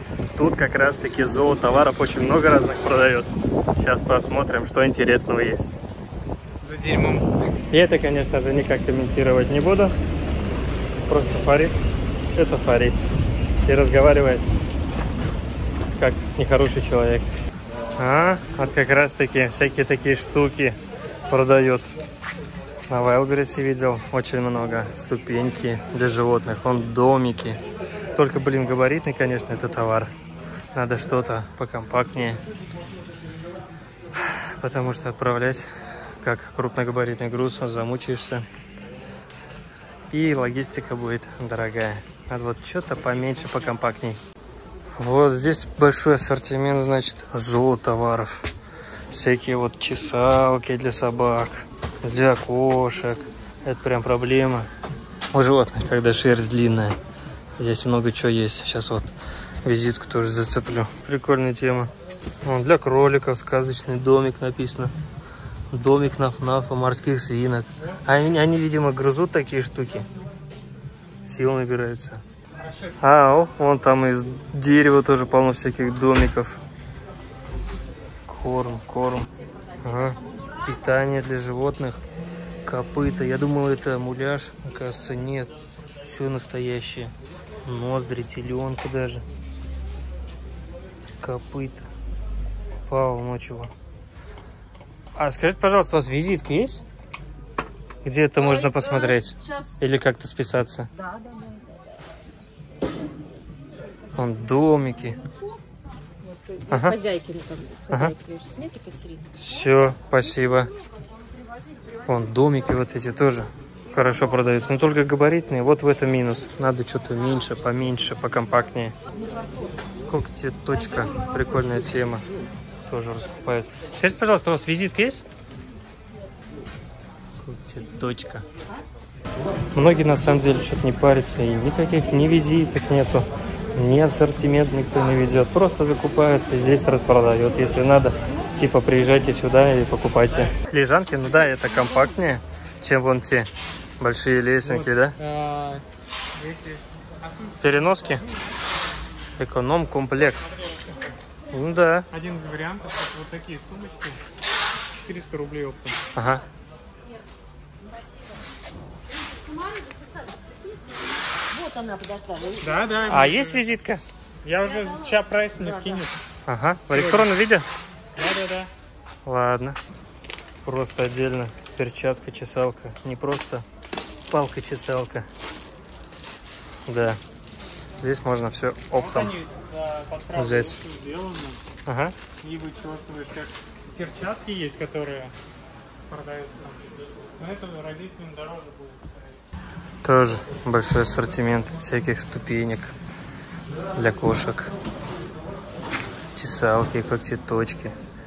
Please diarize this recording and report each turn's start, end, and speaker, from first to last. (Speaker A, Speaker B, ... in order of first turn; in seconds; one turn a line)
Speaker A: 0.3-5.8
Speaker B: 6.6-7.3
Speaker A: 7.7-9.9
Speaker A: 11.1-11.7
Speaker A: 12.3-13.0
Speaker A: 13.6-14.5
Speaker A: 15.9-17.3
Speaker A: 18.0-20.8
Speaker A: 21.3-22.0
Speaker A: 22.9-27.6
Speaker A: 28.1-30.1
Speaker A: 30.7-32.4
Speaker A: 34.1-35.7
Speaker A: 36.2-38.4
Speaker A: 40.1-44.2
Speaker A: 45.0-48.5
Speaker A: 49.1-54.7
Speaker A: 55.3-57.0
Speaker A: 57.6-59.1
Speaker A: 59.6-61.9
Speaker A: 62.4-64.9
Speaker A: 65.7-70.1
Speaker A: 71.2-72.2
Speaker A: 73.0-76.6
Speaker A: 78.2-79.3
Speaker A: 79.8-82.0
Speaker A: 82.6-87.1
Speaker A: 87.6-89.2
Speaker A: 91.2-91.9
Speaker A: 92.8-93.7
Speaker A: 95.2-96.8
Speaker A: 98.0-100.9
Speaker A: 104.2-105.2
Speaker C: 106.4-109.2
Speaker A: 106.7-107.0
Speaker A: 107.9-108.2
Speaker A: 109.3-110.7
Speaker A: 112.0-118.9
Speaker A: 120.1-122.2
Speaker A: 122.9-125.2
Speaker A: 127.4-128.4
Speaker A: 129.7-145.2
Speaker B: 144.6-145.8
Speaker B: 146.3-147.5
Speaker A: 147.6-148.2
Speaker A: 149.4-150.5
Speaker A: 151.5-152.1
Speaker B: 152.1-154.2
Speaker B: 155.0-156.0
Speaker A: 156.1-156.4
Speaker C: 161.6-162.5
Speaker B: 162.6-163.6
Speaker A: 163.1-164.0
Speaker B: 164.4-166.2
Speaker A: 166.4-167.7
Speaker B: 166.9-167.3
Speaker B: 168.2-168.7
Speaker A: 169.2-169.8
Speaker A: 170.6-173.6
Speaker A: 174.3-175.2
Speaker A: 176.9-177.2
Speaker A: 178.0-179.3
Speaker B: 178.9-181.6
Speaker A: 180.3-180.8
Speaker A: 181.8-182.2
Speaker B: 182.4-185.3
Speaker B: 186.1-189.2
Speaker A: 190.0-192.9
Speaker A: 193.9-194.7
Speaker A: 196.3-197.9